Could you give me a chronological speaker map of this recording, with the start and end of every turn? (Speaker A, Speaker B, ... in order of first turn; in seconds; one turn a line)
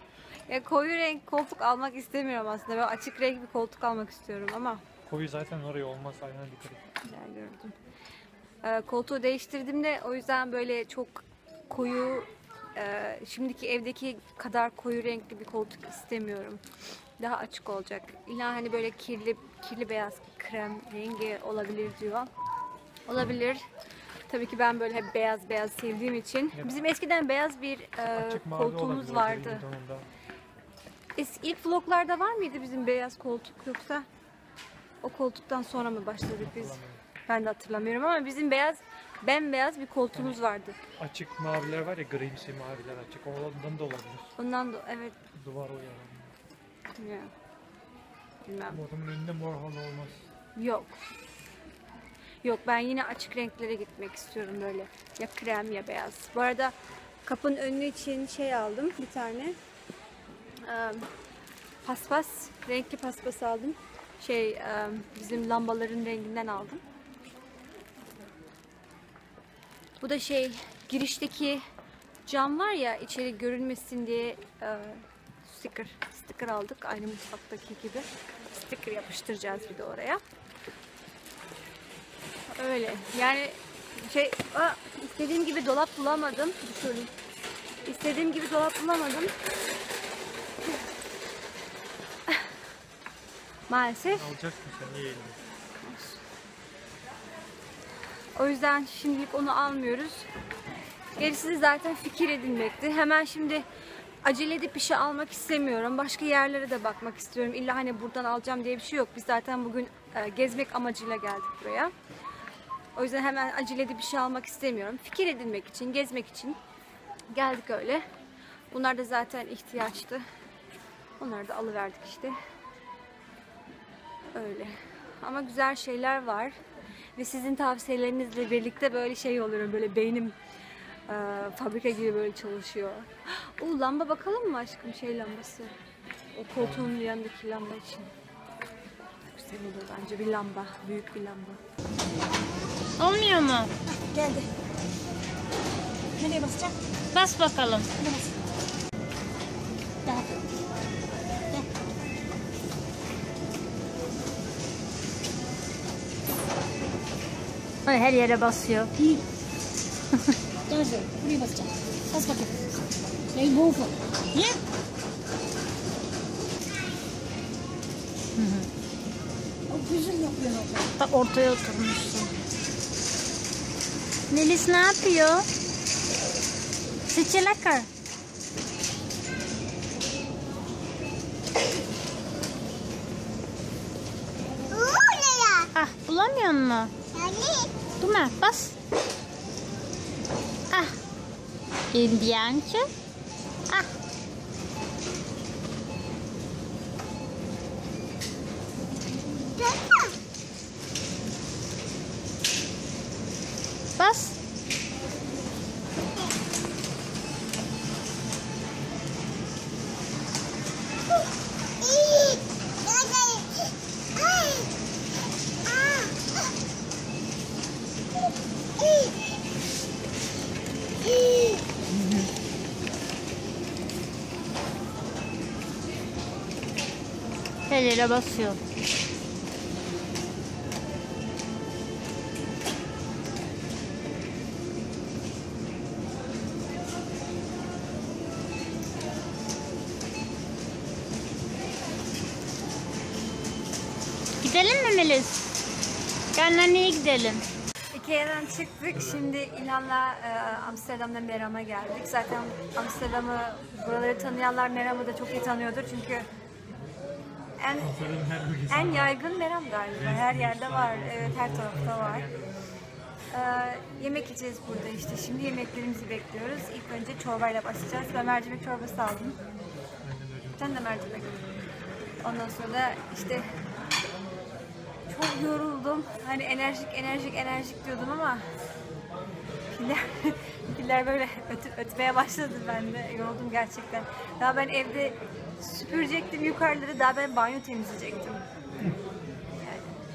Speaker A: 0.5-4.8
Speaker B: 5.0-6.8
Speaker A: 7.0-7.7
Speaker A: 8.6-16.6
Speaker A: 17.2-22.3
Speaker A: 23.1-23.6
Speaker A: 24.3-29.6
Speaker B: 26.5-26.8
Speaker B: 28.1-30.1
Speaker A: 31.1-34.0
Speaker A: 35.0-40.8
Speaker B: 36.4-37.0
Speaker B: 40.1-40.4
Speaker B: 41.0-44.3
Speaker A: 44.4-45.1
Speaker B: 45.4-46.4
Speaker A: 47.0-47.3
Speaker A: 48.4-48.8
Speaker B: 48.7-50.3
Speaker A: 50.5-51.0
Speaker A: 52.4-59.6
Speaker A: 60.6-61.1
Speaker A: 61.8-66.8
Speaker A: 70.0-71.6
Speaker A: 72.2-80.2
Speaker A: 82.5-87.1
Speaker A: 87.8-89.3
Speaker A: 93.7-94.2
Speaker B: 94.1-95.4
Speaker A: 95.8-96.2
Speaker A: 98.3-100.3
Speaker A: 101.2-103.6
Speaker A: 104.2-111.9
Speaker A: 113.0-116.6
Speaker A: 117.3-118.0
Speaker A: 118.7-120.2
Speaker A: 121.2-122.3
Speaker A: 124.3-126.6
Speaker A: 127.2-130.3
Speaker A: 131.1-135.8
Speaker A: 136.3-138.1
Speaker B: 136.6-136.9
Speaker A: 139.2-141.6
Speaker C: 143.0-143.7
Speaker D: 144.0-144.5
Speaker D: 146.2-146.7
Speaker C: 147.1-147.9
Speaker D: 148.0-148.3
Speaker C: 157.8-158.9
Speaker D: 160.7-162.6
Speaker D: 163.3-163.9
Speaker C: 164.3-164.6
Speaker C: 168.3-168.7
Speaker D: 169.7-170.9
Speaker C: 171.0-172.3
Speaker C: 174.3-175.5
Speaker C: 177.1-177.9
Speaker C: 185.5-186.9
Speaker C: 188.0-188.7
Speaker C: 190.7-190.9
Speaker C: 191.9-192.9
Speaker C: 204.0-204.3
Speaker C: 221.9-222.3
Speaker C: 227.7-228.6
Speaker C: 244.4-245.3
Speaker C: 246.3-247.4
Speaker A: 247.9-256.3
Speaker A: 257.6-257.9
Speaker B: 257.8-259.2
Speaker A: 258.7-262.3
Speaker B: 259.9-262.6
Speaker A: 263.3-269.4
Speaker B: 270.0-270.8
Speaker A: 270.6-271.4
Speaker A: 272.2-273.5
Speaker A: 275.1-278.4
Speaker A: 279.7-288.4
Speaker A: 289.6-289.9